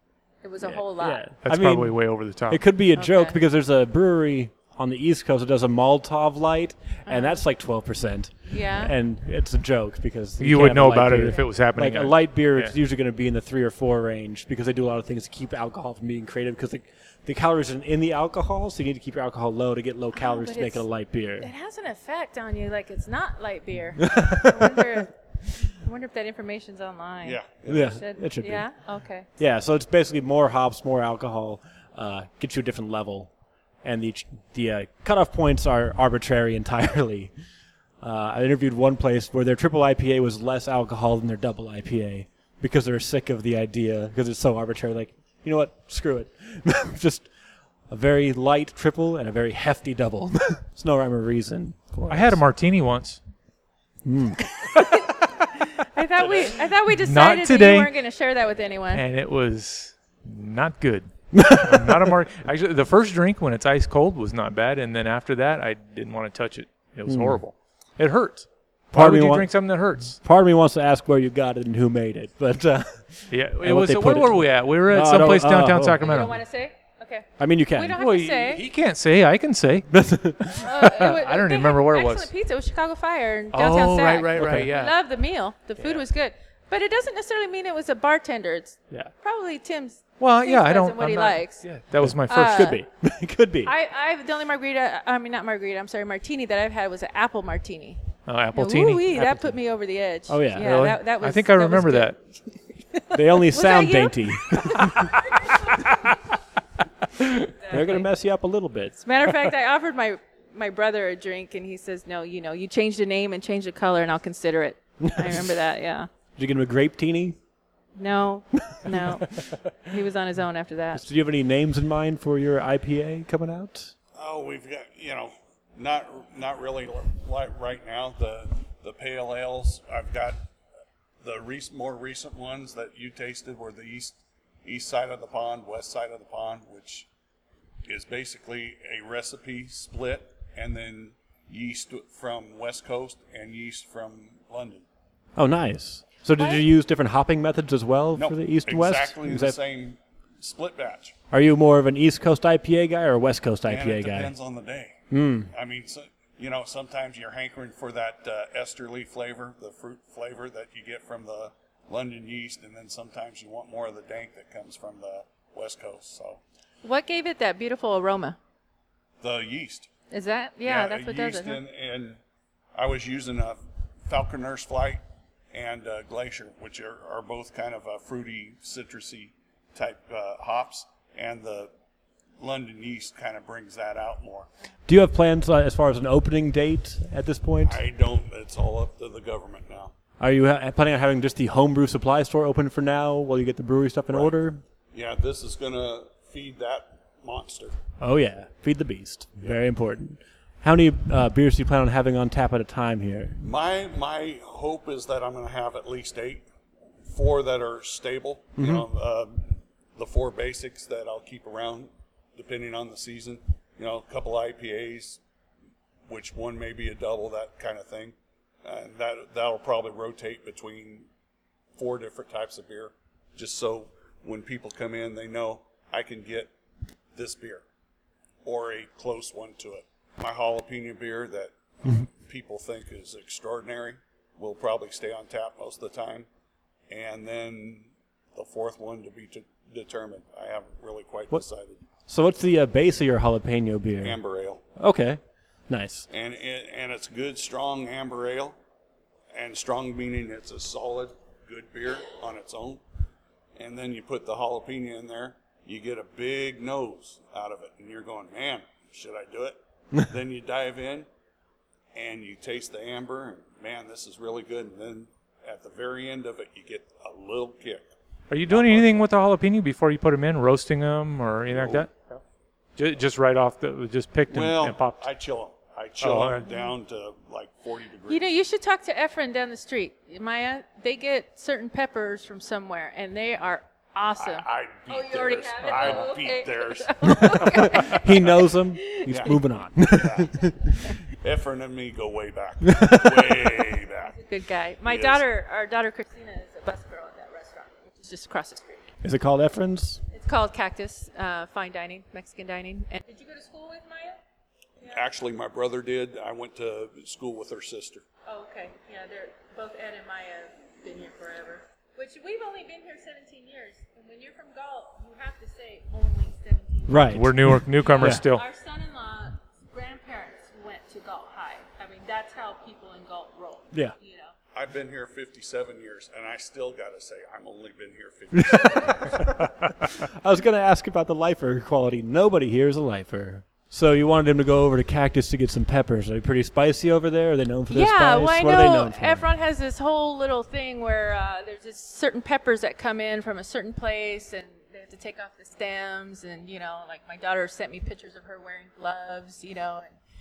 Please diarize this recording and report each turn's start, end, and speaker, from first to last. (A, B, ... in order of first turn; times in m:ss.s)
0:00.4-0:01.2 A
0:00.6-0:02.0 B
0:01.4-0:02.6 C
0:02.5-0:21.5 B
0:03.0-0:03.4 A
0:07.1-0:07.4 A
0:08.4-0:08.9 A
0:10.4-0:12.7 C
0:20.2-0:20.8 A
0:21.4-0:27.4 A
0:24.0-0:25.1 B
0:27.2-0:28.0 D
0:27.7-0:28.7 B
0:28.0-0:29.3 A
0:29.4-0:33.3 B
0:33.8-0:37.3 B
0:38.0-0:47.3 B
0:47.9-0:52.4 B
0:52.1-0:53.2 C
0:54.0-0:54.4 B
0:54.8-0:59.0 A
0:56.9-0:57.9 C
0:58.9-1:10.2 C
1:01.3-1:02.2 B
1:07.1-1:07.4 B
1:08.9-1:09.5 B
1:10.2-1:16.1 B
1:13.3-1:16.4 C
1:16.0-1:18.6 A
1:17.4-1:18.0 B
1:18.0-1:19.9 C
1:19.9-1:20.7 B
1:20.6-1:31.6 A
1:20.6-1:22.3 C
1:23.5-1:24.9 C
1:24.4-1:24.7 B
1:30.2-1:32.7 C
1:32.0-1:33.7 B
1:32.2-1:32.8 A
1:33.6-1:38.0 A
1:38.2-1:39.3 C
1:38.5-1:42.1 A
1:39.2-1:39.5 B
1:40.3-1:40.8 B
1:40.6-1:42.2 C
1:42.9-1:45.9 A
1:43.1-1:45.3 B
1:47.2-1:49.5 B
1:47.6-1:48.1 A
1:49.0-1:56.1 A
1:55.0-1:55.5 B
1:56.4-1:57.4 B
1:58.0-2:01.0 A
1:58.6-1:59.5 B
2:00.9-2:03.9 B
2:04.2-2:10.4 D
2:11.2-2:17.1 D
2:17.8-2:24.8 D
2:25.4-2:29.6 B
2:26.4-2:26.6 A
2:28.1-2:31.2 D
2:31.3-2:34.3 B
2:33.7-2:46.4 D
2:35.1-2:35.5 B
2:46.8-2:48.4 A
2:49.2-2:49.9 D
2:50.1-2:51.6 A
2:50.6-2:52.2 D
2:52.7-2:55.0 D
2:55.5-3:01.7 D
3:02.4-3:04.5 D
3:04.9-3:07.8 B
3:07.6-3:09.9 D
3:10.2-3:14.6 B
3:14.9-3:17.8 D
3:18.0-3:23.4 B
3:23.4-3:26.4 D
3:27.0-3:35.2 D
3:28.6-3:28.9 B
3:36.1-3:41.1 D
3:41.8-3:46.5 D
3:47.1-3:47.6 D
3:48.4-3:56.3 D
3:56.9-4:01.8 D
4:02.1-4:04.2 B
4:04.0-4:04.6 D
4:04.8-4:06.0 B
4:06.1-4:08.6 D
4:09.3-4:12.8 D
4:13.6-4:21.1 D
4:21.9-4:27.9 D
4:28.3-4:31.9 C
4:28.5-4:29.1 D
4:31.5-4:32.2 D
4:32.8-4:35.0 C
4:34.3-4:38.2 D
4:36.0-4:36.4 C
4:38.1-4:49.4 A
4:44.2-4:48.1 D
4:47.3-4:50.8 B
4:49.0-4:50.5 D
4:51.1-4:54.2 D
4:52.6-4:53.5 B
4:54.0-4:58.9 A
4:54.8-4:55.2 D
4:59.0-5:00.0 B
5:00.1-5:04.2 A
5:04.9-5:08.0 D
5:08.3-5:24.3 A
5:16.9-5:18.2 B
5:17.1-5:18.4 C
5:24.5-5:29.4 D
5:28.3-5:39.2 B
5:37.7-5:49.9 A